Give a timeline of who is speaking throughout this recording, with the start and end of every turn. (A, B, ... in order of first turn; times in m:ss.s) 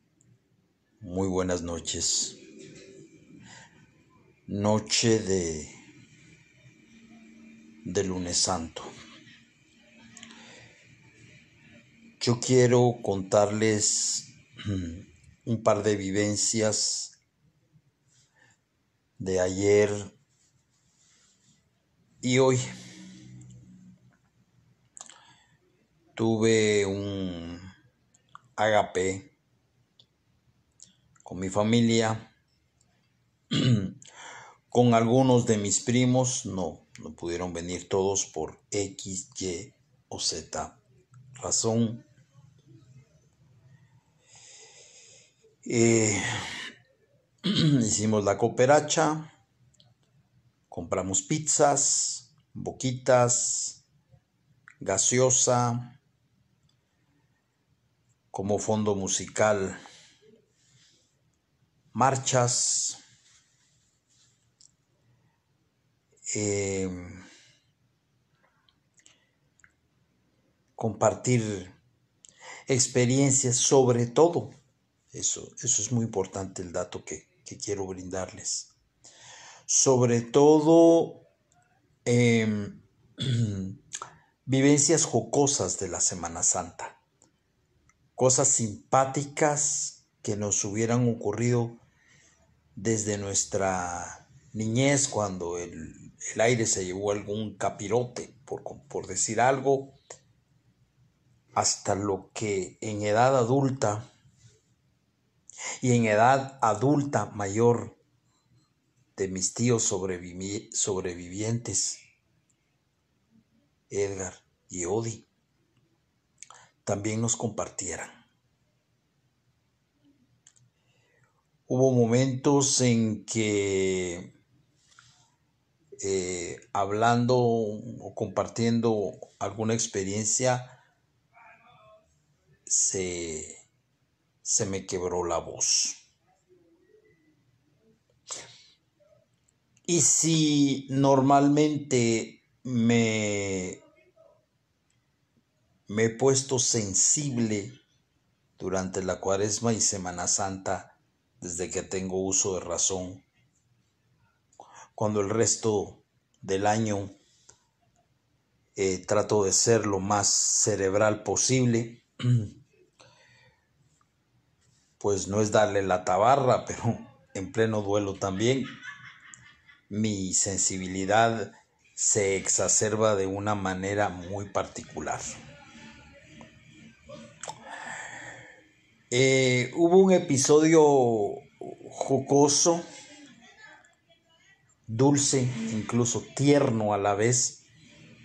0:01.0-0:02.4 A
0:04.5-0:05.7 A
0:07.8-0:08.9 A
0:12.2-0:17.1 A
0:19.2-0:20.1 A
0:22.2-0:22.6 A
0:26.2-0:27.7 A
0:28.6-0:29.3 A
0:31.2-0:32.3 A
0:33.5-0:34.0 A
0:34.7-0:40.8 A
0:41.4-0:42.0 A
0:45.6-0:46.2 A
0:47.4-0:49.3 A
0:50.7-0:53.8 A
0:54.8-0:56.0 A
0:58.3-0:59.8 A
1:01.9-1:03.0 A
1:06.3-1:07.2 A
1:10.8-1:11.7 A
1:12.7-1:14.5 A
1:15.1-1:18.7 A
1:19.7-1:21.2 A
1:22.0-1:23.8 A
1:24.4-1:27.0 A
1:28.2-1:31.8 A
1:32.8-1:40.0 A
1:41.5-1:44.0 A
1:45.8-1:48.0 A
1:49.2-1:52.0 A
1:53.9-1:55.2 A
1:56.8-1:58.2 A
2:01.7-2:04.3 A
2:06.0-2:10.8 A
2:12.7-2:13.6 A
2:14.4-2:16.0 A
2:19.9-2:23.8 A
2:25.9-2:27.8 A
2:28.6-2:33.2 A
2:35.0-2:37.1 A
2:38.8-2:42.5 A
2:45.0-2:48.7 A
2:49.9-2:55.3 A
2:59.1-3:02.8 A
3:04.9-3:07.6 A